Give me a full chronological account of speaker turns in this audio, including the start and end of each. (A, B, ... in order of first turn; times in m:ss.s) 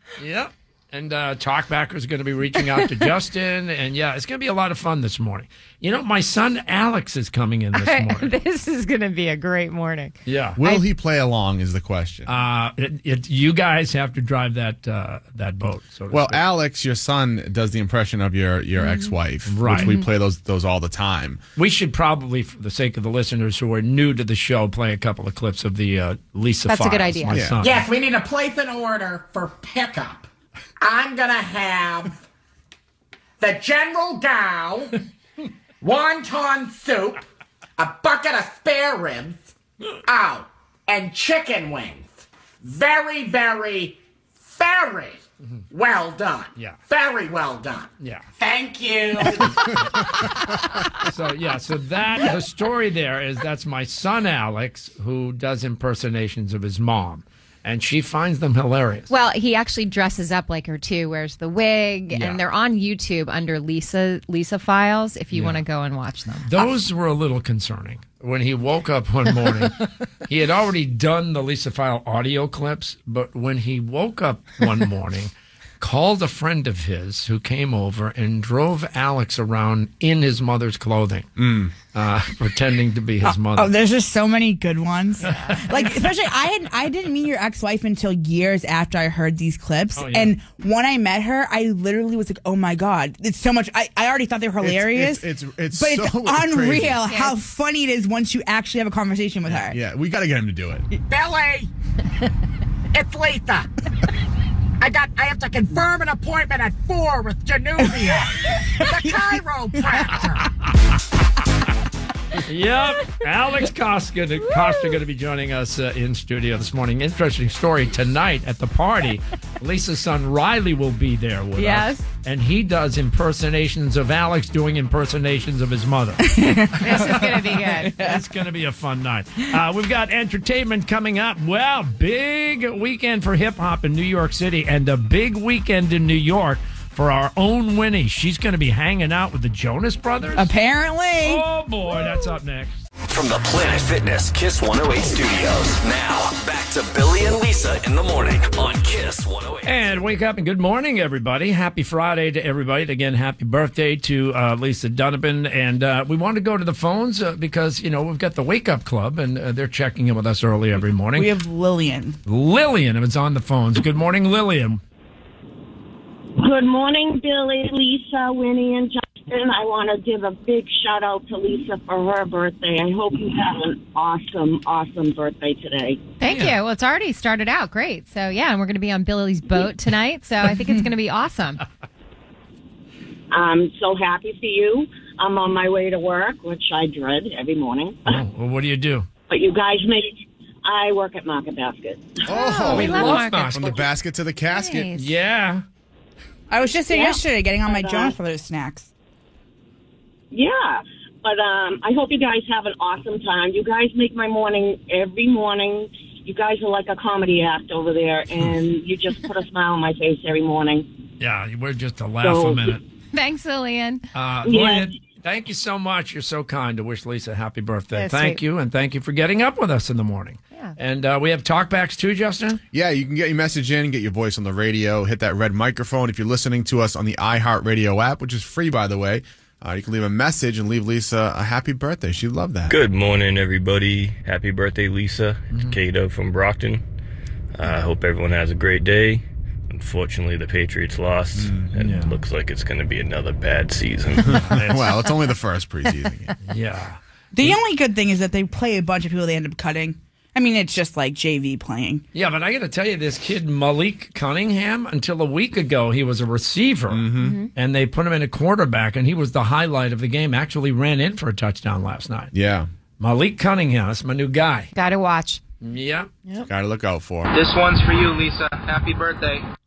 0:00.2-0:08.3 A
0:07.7-0:10.8 B
0:10.2-0:10.6 A
0:10.6-0:12.3 C
0:12.3-0:16.4 A
0:16.1-0:21.4 C
0:18.8-0:19.1 B
0:19.5-0:20.0 A
0:21.6-0:27.8 A
0:26.7-0:27.4 B
0:27.3-0:27.7 C
0:27.6-0:30.3 D
0:30.8-0:32.2 D
0:33.4-0:35.0 D
0:35.8-0:37.2 D
0:37.8-0:39.5 D
0:40.0-0:49.8 D
0:48.0-0:48.2 A
0:50.9-0:59.1 A
0:59.1-1:06.7 B
1:02.1-1:02.4 A
1:05.3-1:05.6 A
1:06.4-1:21.3 A
1:21.4-1:21.7 C
1:21.9-1:23.7 A
1:23.5-1:39.8 E
1:25.2-1:25.6 B
1:25.2-1:26.1 A
1:29.9-1:30.3 A
1:34.6-1:37.0 C
1:37.0-1:37.4 B
1:39.6-1:40.9 C
1:41.1-1:41.7 D
1:42.9-1:43.7 D
1:44.8-1:50.4 D
1:52.4-2:20.5 A
2:01.6-2:02.0 B
2:06.2-2:08.2 E
2:06.8-2:07.9 B
2:20.3-2:21.4 E
2:21.2-2:22.8 A
2:23.1-2:29.9 F
2:29.6-2:41.3 A
2:41.2-2:42.2 E
2:42.3-2:44.8 A
2:46.4-2:56.0 G
2:56.2-3:01.6 B
2:56.3-2:56.6 A
3:03.3-3:08.2 G
3:08.1-3:09.1 A
3:09.3-3:12.1 G
3:12.2-3:14.9 C
3:12.3-3:13.8 B
3:12.7-3:13.8 A
3:14.5-3:15.1 B
3:15.0-3:15.6 A
3:16.5-3:18.9 E
3:16.9-3:18.1 G
3:20.3-3:30.9 G
3:31.2-3:32.8 A
3:32.2-3:32.8 G
3:33.1-3:34.0 B
3:34.1-3:42.6 A
3:34.4-3:34.9 G
3:37.9-3:38.4 B
3:42.7-3:52.8 C
3:52.7-3:56.8 H
3:55.5-3:55.8 A
3:57.6-4:04.4 H
4:01.4-4:01.7 C
4:01.8-4:02.1 A
4:04.3-4:06.3 C
4:04.5-4:05.0 A
4:06.4-4:07.6 A
4:07.3-4:12.0 E
4:12.1-4:22.3 A
4:16.9-4:17.4 C
4:17.2-4:17.5 B
4:22.3-4:22.7 C
4:23.0-4:24.7 A
4:24.7-4:25.4 B
4:25.6-4:26.1 A
4:26.5-4:27.3 C
4:27.3-4:29.4 I